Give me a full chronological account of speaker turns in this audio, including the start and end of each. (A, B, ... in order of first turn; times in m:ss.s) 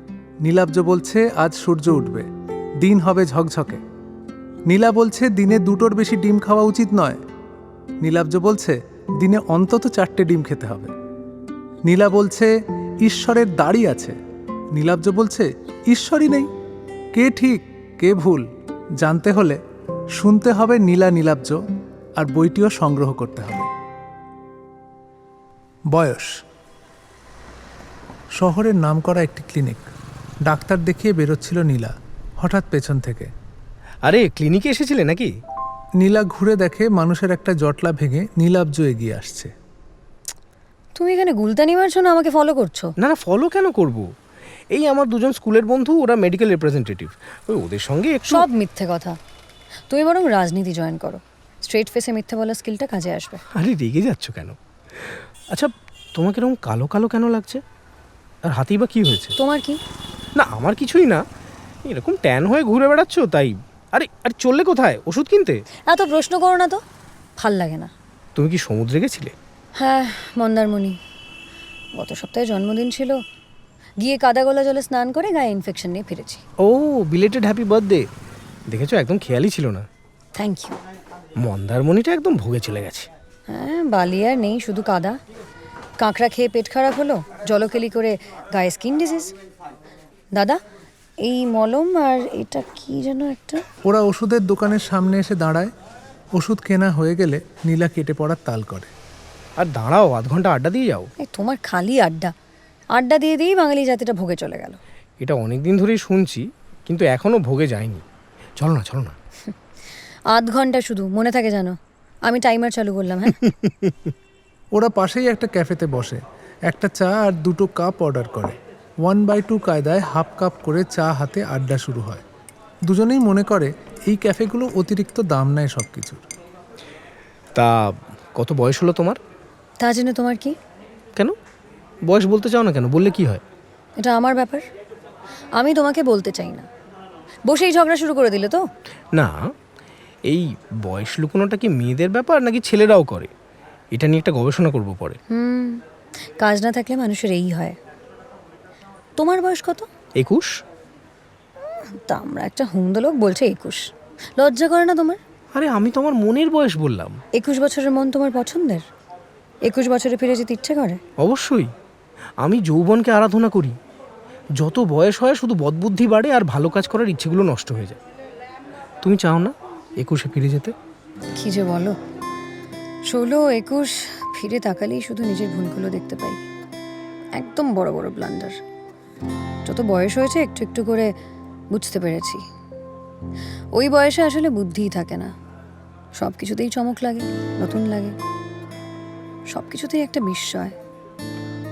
0:00.4-0:02.3 A
0:02.8-0:03.8 A
0:04.7-0:07.2 A
0:08.0-0:10.9 A
0:11.8-0:14.2 A
0:14.7-0:16.5 A
0:17.1-0:18.4 A
0:19.0-0:19.6 A
0:20.1-0:21.6 A
0:22.2-0:23.7 A
0:25.9-0:26.3 A
0:28.4-0:29.9 A
0:30.4-0:33.3 A
0:34.0-0:35.3 B
0:36.0-0:39.5 A
0:41.0-0:42.9 C
0:43.0-0:44.0 B
0:44.7-0:48.4 B
0:48.3-0:49.2 C
0:49.9-0:53.4 C
0:53.5-0:57.6 B
0:58.4-0:59.3 B
0:59.4-0:59.8 C
1:00.4-1:01.2 B
1:01.8-1:05.6 B
1:05.9-1:06.8 C
1:07.4-1:07.9 C
1:08.4-1:09.3 B
1:09.8-1:11.0 C
1:11.9-1:13.2 C
1:14.0-1:16.4 C
1:16.6-1:18.1 B
1:18.7-1:19.8 B
1:20.4-1:20.8 C
1:21.4-1:23.1 B
1:23.5-1:25.2 C
1:26.0-1:29.3 C
1:31.2-1:33.6 C
1:33.8-1:35.7 A
1:36.4-1:38.9 A
1:39.6-1:41.1 B
1:41.2-1:42.3 C
1:42.9-1:44.8 C
1:45.2-1:48.0 B
1:48.6-1:49.1 B
1:50.3-1:53.4 C
1:54.7-2:02.2 A
2:02.9-2:06.2 A
2:07.5-2:09.2 B
2:09.8-2:10.5 C
2:12.0-2:13.4 B
2:14.0-2:14.6 C
2:15.6-2:16.7 C
2:17.5-2:18.6 C
2:20.3-2:23.3 B
2:23.9-2:25.2 B
2:25.3-2:25.8 C
2:26.4-2:27.8 C
2:29.2-2:29.8 C
2:30.2-2:30.5 B
2:31.9-2:35.2 C
2:35.5-2:37.2 B
2:37.3-2:38.8 C
2:39.6-2:41.0 C
2:41.2-2:41.7 B
2:42.4-2:43.8 B
2:44.6-2:48.0 B
2:49.0-2:50.7 B
2:51.4-2:52.0 C
2:53.1-2:56.4 C
2:57.3-2:58.6 C
2:59.6-3:01.1 C
3:01.7-3:02.4 C
3:03.7-3:05.3 C
3:06.1-3:08.2 C
3:09.5-3:10.8 C